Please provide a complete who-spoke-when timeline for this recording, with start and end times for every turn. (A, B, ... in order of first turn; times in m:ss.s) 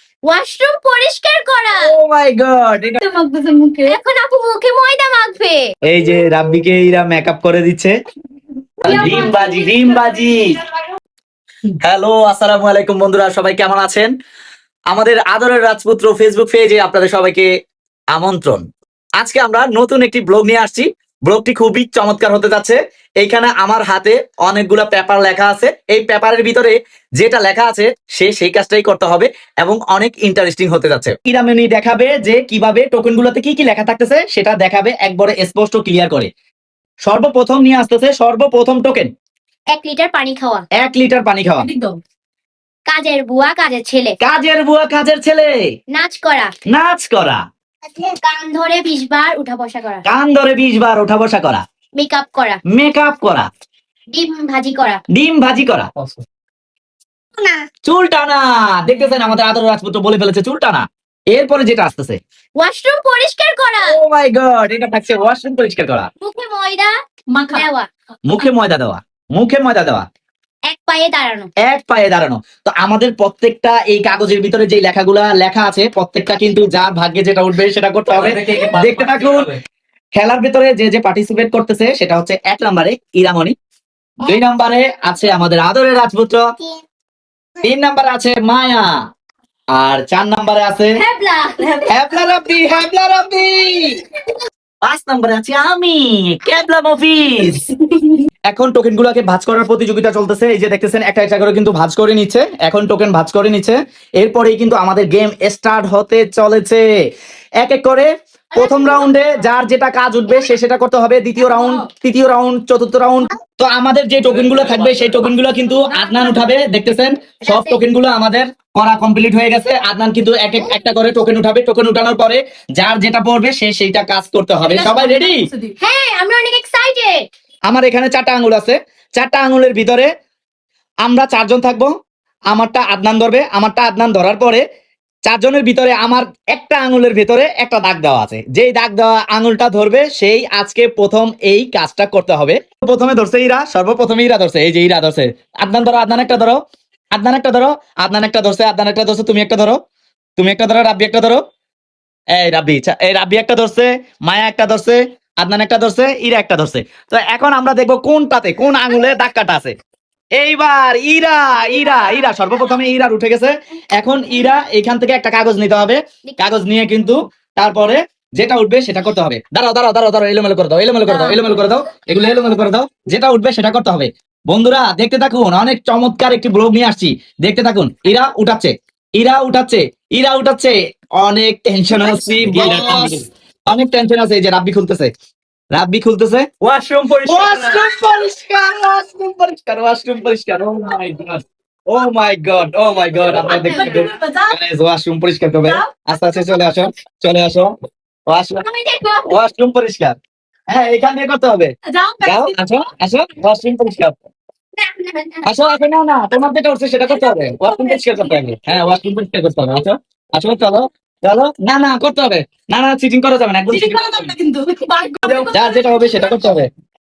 0:00.2-0:02.0 A
0:01.7-0:03.0 B
0:03.0-0:04.0 C
0:03.8-0:05.7 A
0:05.8-0:08.0 B
0:08.8-0:10.6 B
0:08.9-0:09.4 C
0:08.9-0:10.0 A
0:11.8-0:14.1 B
0:14.9-0:17.5 B
0:18.1-0:18.7 B
0:19.2-0:36.3 B
0:37.0-0:39.1 B
0:39.7-0:40.6 A
0:40.8-0:41.7 B
0:41.6-0:42.0 C
0:42.9-0:44.2 A
0:44.2-0:45.7 B
0:45.9-0:46.5 A
0:46.7-0:47.4 B
0:47.9-0:50.0 A
0:50.0-0:51.6 B
0:52.0-0:52.6 A
0:52.7-0:53.5 B
0:54.1-0:55.0 A
0:55.1-0:55.9 B
0:56.0-0:56.2 D
0:57.4-0:57.6 A
0:57.8-1:02.2 B
1:02.6-1:04.0 A
1:03.8-1:06.1 B
1:06.2-1:06.9 A
1:07.3-1:07.7 C
1:07.5-1:07.9 A
1:08.3-1:10.1 B
1:10.7-1:11.5 A
1:11.6-1:19.5 B
1:18.1-1:19.6 D
1:20.2-1:23.6 B
1:24.2-1:26.4 B
1:27.6-1:29.0 B
1:29.7-1:31.0 B
1:31.0-1:32.0 A
1:31.9-1:34.0 B
1:34.8-1:37.6 B
1:38.5-1:46.9 B
1:47.6-2:05.5 B
1:48.6-1:49.3 A
1:51.4-1:51.9 C
1:54.3-1:55.3 D
1:55.9-1:56.5 C
1:57.5-1:57.8 A
2:04.7-2:05.7 C
2:05.8-2:07.3 A
2:07.7-2:10.1 B
2:11.0-2:11.9 B
2:12.5-2:14.6 B
2:15.3-2:26.6 B
2:27.1-2:29.8 B
2:30.4-2:31.4 B
2:32.3-2:39.8 B
2:40.4-3:05.1 B
2:46.3-2:46.6 A
2:51.1-2:51.4 C
3:02.1-3:03.3 D
3:05.7-3:06.5 B
3:06.6-3:07.8 D
3:07.2-3:17.8 B
3:13.3-3:14.6 C
3:13.5-3:14.0 A
3:15.6-3:15.9 C
3:18.3-3:18.6 B
3:18.6-3:19.3 A
3:19.3-3:20.2 B
3:20.7-3:24.2 B
3:21.9-3:22.7 C
3:24.8-3:25.7 A
3:25.5-3:34.3 B
3:27.3-3:28.2 A
3:33.7-3:36.5 C
3:35.2-3:36.7 B